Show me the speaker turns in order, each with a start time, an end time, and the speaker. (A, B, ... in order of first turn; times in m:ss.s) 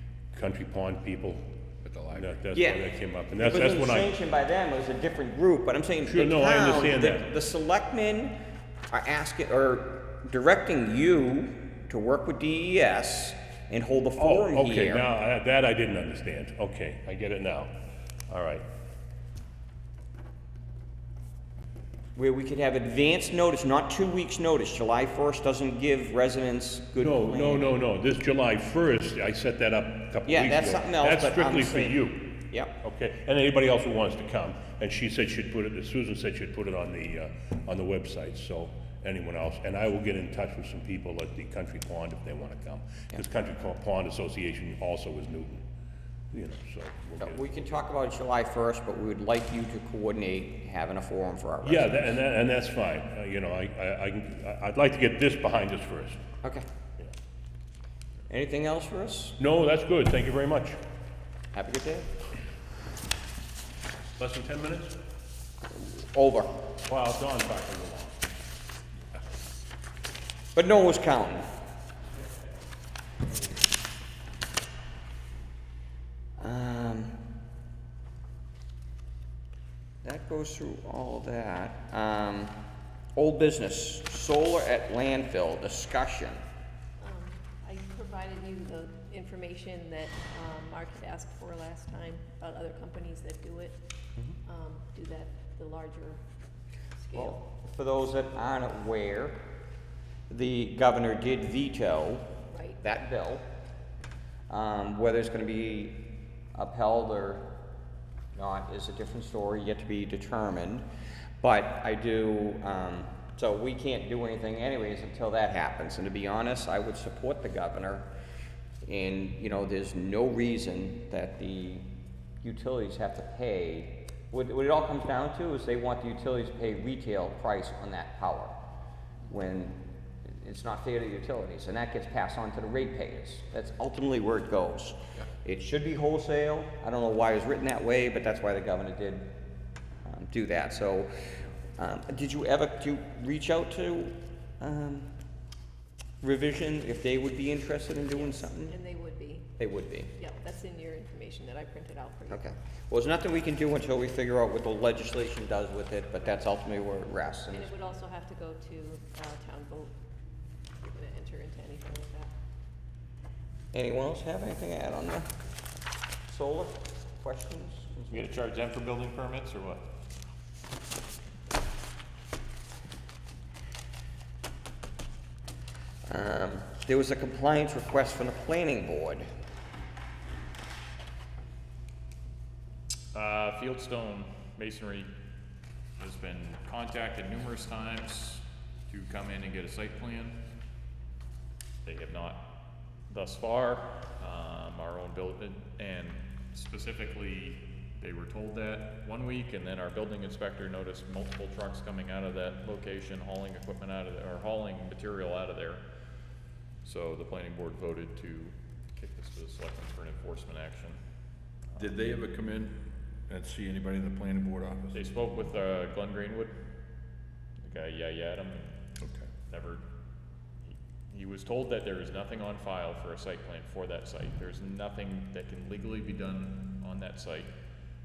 0:00.3-0:01.4 A
0:01.8-0:02.4 B
0:02.1-0:04.1 A
0:02.5-0:02.8 C
0:03.4-0:08.4 C
0:06.0-0:07.3 A
0:08.9-0:15.0 C
0:14.2-0:17.7 A
0:18.3-0:18.6 A
0:22.1-0:27.7 C
0:27.0-0:45.6 A
0:30.3-0:32.7 C
0:46.3-0:47.8 A
0:47.2-0:52.2 C
0:51.6-0:56.2 A
0:58.3-0:59.4 C
0:59.4-1:00.8 A
1:01.5-1:02.1 C
1:04.2-1:04.9 A
1:05.8-1:06.5 C
1:06.8-1:08.2 A
1:10.5-1:11.5 C
1:16.4-1:17.2 C
1:20.0-1:22.6 C
1:23.1-1:26.4 C
1:27.0-1:33.8 D
1:34.5-1:36.2 D
1:37.0-1:37.4 D
1:37.1-1:39.4 C
1:40.3-1:42.2 C
1:42.5-1:42.8 D
1:42.8-1:43.4 C
1:44.5-1:47.4 C
1:48.3-1:50.8 C
1:51.4-1:58.1 C
1:58.8-2:01.9 C
2:02.4-2:08.5 C
2:09.3-2:19.3 C
2:20.0-2:21.1 C
2:21.8-2:25.1 C
2:26.2-2:28.8 C
2:28.1-2:29.5 D
2:29.6-2:30.1 C
2:30.2-2:32.4 D
2:32.3-2:37.7 C
2:37.5-2:39.9 D
2:40.8-2:42.3 D
2:43.7-2:45.3 C
2:46.3-2:48.3 C
2:48.1-2:49.8 E
2:56.1-2:59.3 C
3:03.1-3:05.1 E
3:06.0-3:10.4 E
3:11.8-3:12.4 E
3:13.1-3:25.8 E
3:26.8-3:31.0 E
3:31.7-3:35.1 B
3:31.8-3:32.1 E
3:34.9-3:36.6 E
3:37.6-3:38.8 E
3:39.0-3:39.3 B
3:39.5-3:39.8 E
3:40.6-3:47.5 E